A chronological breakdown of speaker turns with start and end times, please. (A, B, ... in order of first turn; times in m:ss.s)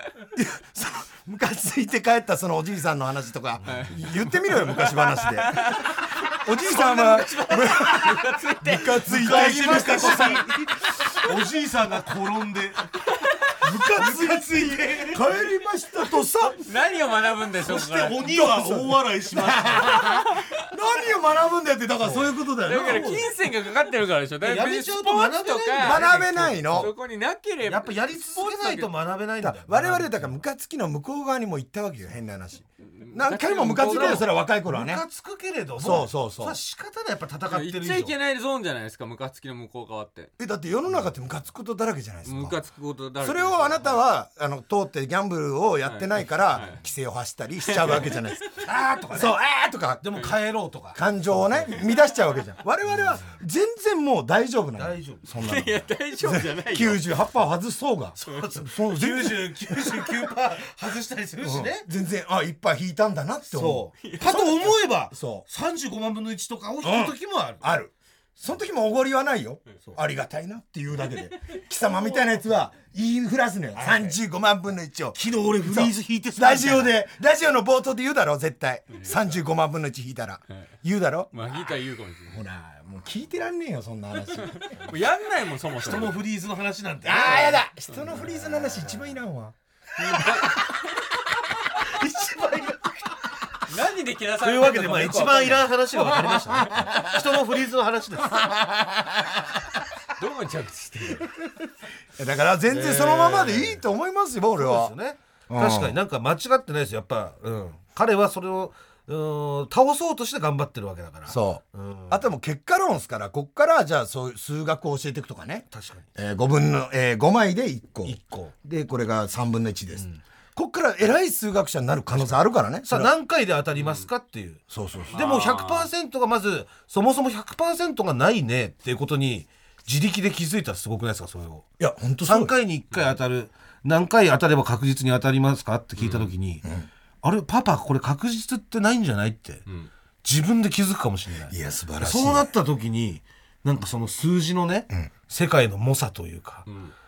0:00.3-0:10.4 A
0:03.6-0:03.9 B
0:03.7-0:11.2 C
0:09.0-0:12.9 B
0:13.6-0:16.6 A
0:13.9-0:15.2 B
0:16.6-0:18.2 C
0:17.6-0:20.1 B
0:18.2-0:23.2 A
0:19.8-0:20.4 C
0:22.0-0:23.3 B
0:22.6-0:26.0 C
0:24.4-0:26.9 B
0:25.8-0:26.9 A
0:26.7-0:28.9 C
0:27.7-0:30.4 B
0:29.4-0:35.0 A
0:33.0-0:34.3 C
0:33.8-0:38.2 B
0:35.8-0:36.6 A
0:37.5-0:40.3 C
0:40.4-0:42.6 A
0:42.2-0:44.0 C
0:43.2-0:48.4 A
0:45.8-0:46.8 C
0:47.7-0:48.6 C
0:48.6-0:49.4 B
0:49.1-0:50.2 A
0:50.0-0:51.8 B
0:51.0-1:00.1 A
0:53.0-0:53.3 B
0:54.8-0:55.3 B
0:55.4-0:57.0 C
0:58.2-1:01.9 B
1:01.4-1:05.4 A
1:03.5-1:07.7 B
1:04.0-1:04.3 C
1:06.8-1:21.6 A
1:13.7-1:14.2 B
1:15.2-1:17.0 B
1:21.3-1:22.4 C
1:22.3-1:24.9 A
1:24.6-1:26.2 C
1:25.8-1:27.6 B
1:27.0-1:29.6 A
1:27.9-1:28.6 C
1:30.0-1:30.7 C
1:30.2-1:30.4 A
1:31.8-1:33.0 B
1:33.7-1:35.8 C
1:34.4-1:38.4 B
1:36.7-1:37.2 A
1:38.3-1:39.2 A
1:40.2-1:41.3 C
1:42.2-1:44.9 A
1:42.7-1:43.8 B
1:44.6-1:52.3 B
1:45.5-1:46.0 A
1:51.3-2:03.1 A
1:55.7-1:56.1 B
1:58.0-1:58.5 B
2:00.0-2:00.2 B
2:02.1-2:11.6 B
2:03.8-2:04.1 C
2:04.7-2:05.2 A
2:05.1-2:05.9 C
2:11.8-2:12.5 A
2:12.2-2:16.6 B
2:16.0-2:16.3 C
2:17.2-2:19.6 B
2:20.2-2:26.7 B
2:21.5-2:22.5 A
2:26.7-2:26.9 C